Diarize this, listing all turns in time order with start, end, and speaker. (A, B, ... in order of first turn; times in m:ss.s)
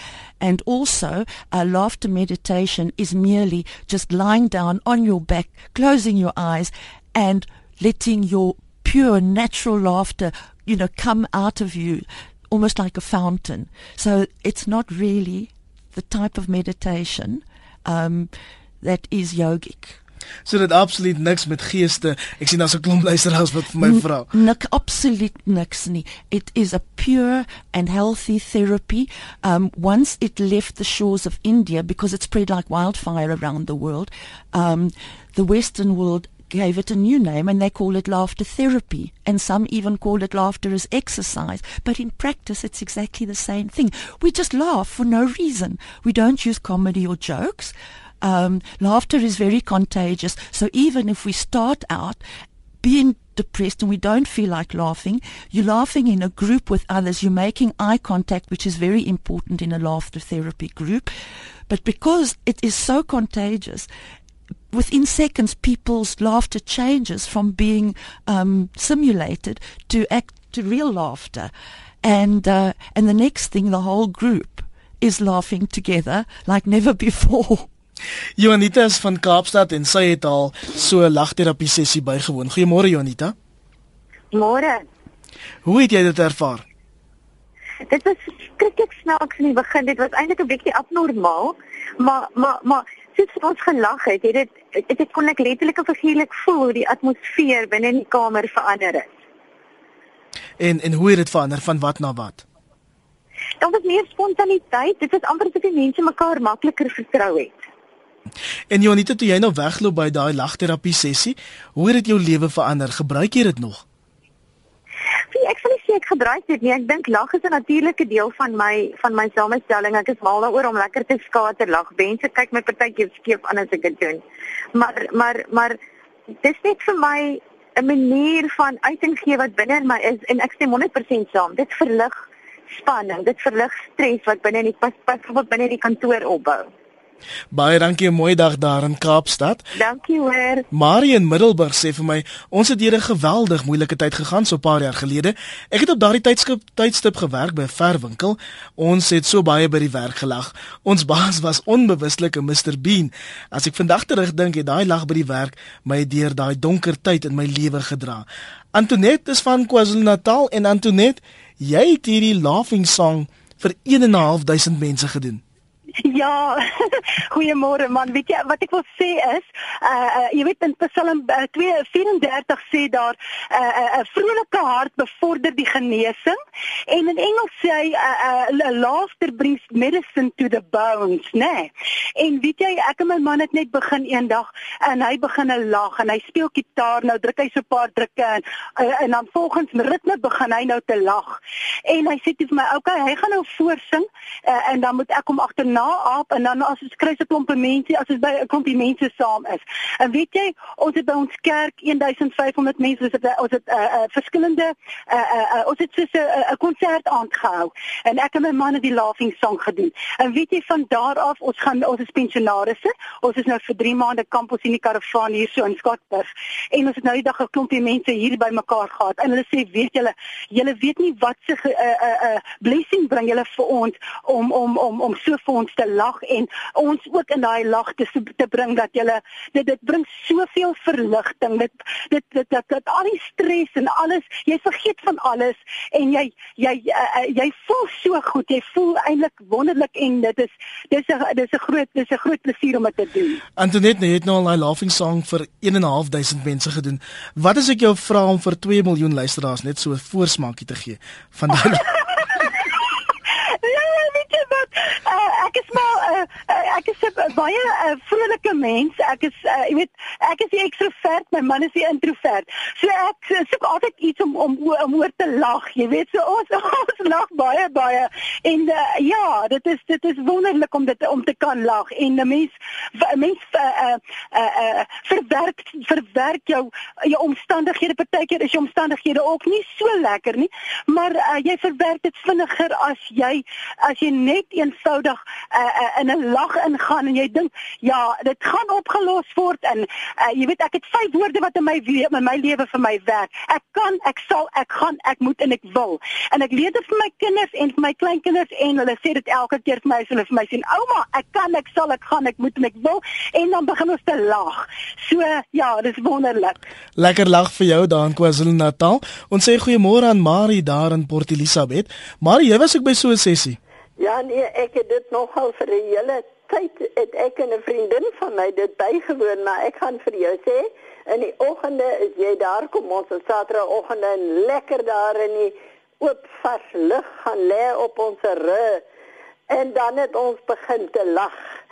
0:00.4-0:20.0 A
0:20.5-0:24.3 B
0:23.8-0:52.2 A
0:52.8-1:01.1 A
1:01.7-1:03.9 A
1:04.7-1:11.5 A
1:12.0-1:17.7 A
1:18.4-1:23.4 B
1:24.3-1:24.8 C
1:25.6-1:26.6 B
1:27.9-1:39.1 C
1:40.6-1:42.4 B
1:43.6-1:47.6 C
1:48.7-1:53.8 B
1:55.3-2:04.2 C
2:04.7-2:05.8 C
2:06.4-2:16.7 C
2:17.5-2:19.6 B
2:19.8-2:20.6 C
2:20.7-2:45.4 B
2:46.0-2:56.4 D
2:56.9-4:03.4 D
4:03.6-4:11.9 B
4:12.2-5:06.6 D
5:07.0-5:13.6 B
5:14.0-5:28.8 E
5:29.5-5:31.4 E